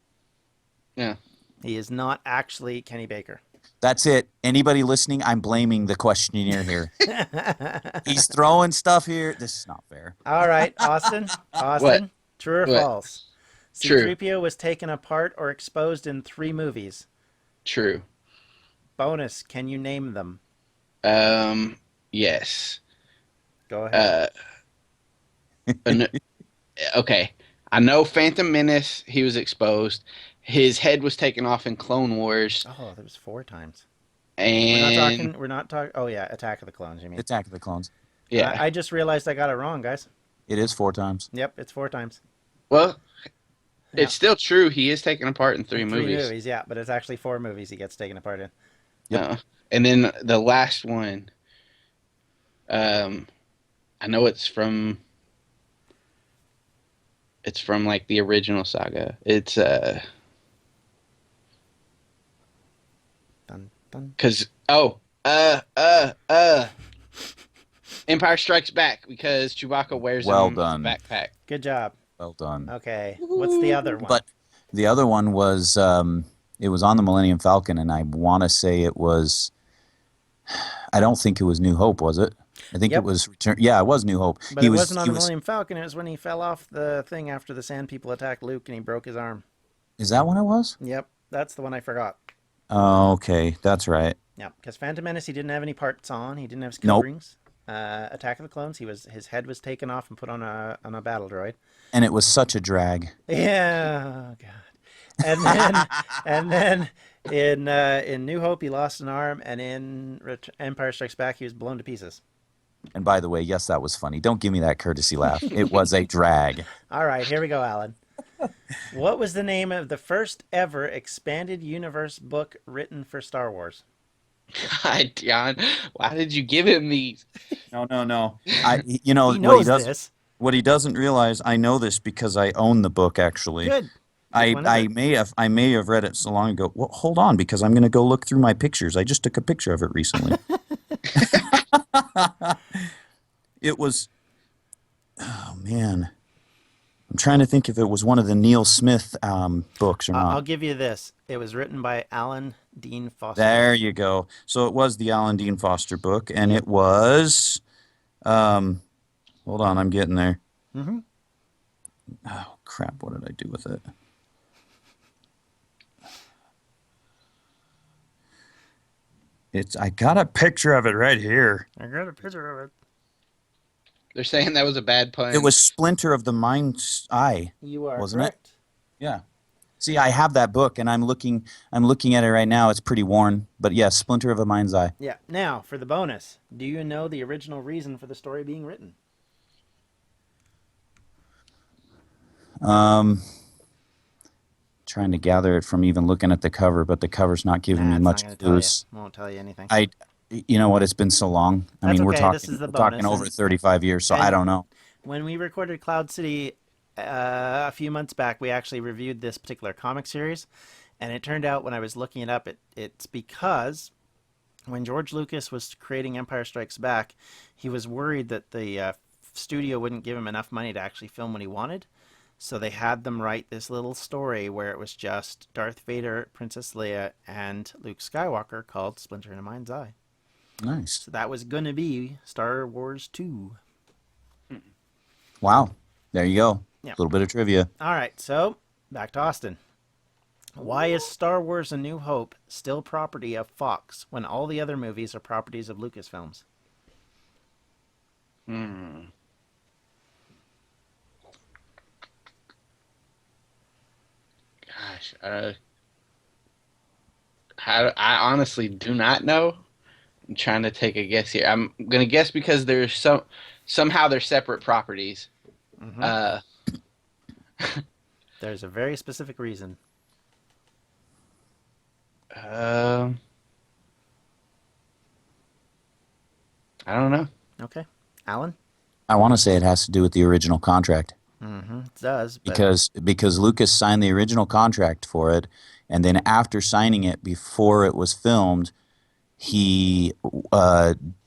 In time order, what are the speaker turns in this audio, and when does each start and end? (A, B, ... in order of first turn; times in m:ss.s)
0:01.6-0:03.4 A
0:03.8-0:06.9 B
0:07.1-0:08.1 A
0:08.0-0:10.2 B
0:10.3-0:13.2 A
0:13.8-0:17.1 A
0:13.8-0:14.1 C
0:17.6-0:18.0 C
0:19.0-0:20.4 A
0:21.0-0:22.8 C
0:23.7-0:24.1 A
0:23.9-0:24.3 C
0:25.7-0:26.0 B
0:25.9-0:26.1 C
0:26.9-0:32.6 C
0:32.6-0:33.8 A
0:34.4-0:35.3 C
0:34.7-0:37.2 A
0:37.2-0:37.9 B
0:38.3-0:38.6 C
0:38.4-0:40.1 A
0:40.5-0:41.3 B
0:41.3-0:42.2 A
0:42.7-0:43.0 C
0:44.0-0:46.3 C
0:45.8-0:48.5 A
0:49.1-0:51.3 C
0:52.7-0:53.3 C
0:54.0-0:55.0 C
0:57.4-1:00.0 C
1:03.5-1:04.2 A
1:04.2-1:06.7 C
1:08.1-1:11.3 C
1:10.2-1:11.0 B
1:11.5-1:12.0 A
1:12.2-1:12.7 B
1:12.7-1:14.2 A
1:13.2-1:13.9 C
1:14.0-1:19.5 B
1:20.5-1:25.3 B
1:24.5-1:29.4 A
1:30.0-1:30.8 B
1:30.8-1:32.2 A
1:32.7-1:34.2 B
1:34.4-1:41.6 A
1:41.9-1:43.1 B
1:43.3-1:52.2 A
1:52.9-1:56.7 B
1:56.9-1:58.0 A
1:58.9-2:03.8 A
2:04.6-2:07.3 C
2:07.7-2:13.8 B
2:09.3-2:10.1 A
2:13.6-2:14.9 A
2:14.3-2:20.4 B
2:21.2-2:22.8 B
2:23.6-2:24.1 B
2:25.2-2:26.1 B
2:27.1-2:30.4 B
2:30.1-2:33.8 A
2:33.4-2:37.6 B
2:38.2-2:38.8 B
2:39.5-2:40.4 B
2:40.7-2:41.0 A
2:42.3-2:43.8 B
2:49.5-2:51.7 B
2:51.8-2:52.7 A
2:54.2-2:55.6 C
2:55.3-2:58.3 B
2:57.6-2:58.6 A
2:59.8-3:04.9 B
3:05.0-3:09.0 A
3:12.6-3:13.2 B
3:14.9-3:18.8 B
3:17.7-3:19.7 A
3:19.7-3:24.7 B
3:21.8-3:23.3 A
3:24.1-3:24.4 A
3:25.0-3:30.5 A
3:31.0-3:33.9 A
3:34.7-3:41.9 A
3:42.4-3:49.9 A
3:50.6-3:51.0 B
3:51.0-3:53.6 A
3:55.4-3:57.7 B
3:57.8-3:59.6 A
4:00.6-4:06.4 A
4:08.5-4:09.1 C
4:14.7-4:15.6 C
4:17.6-4:19.6 C
4:20.3-4:25.3 C
4:25.8-4:26.2 A
4:26.0-4:26.4 C
4:28.4-4:29.8 A
4:32.3-4:33.2 C
4:36.9-4:37.3 C
4:37.6-4:38.6 A
4:39.1-4:41.1 B
4:41.4-4:42.7 A
4:42.5-4:48.7 B
4:49.4-4:51.0 B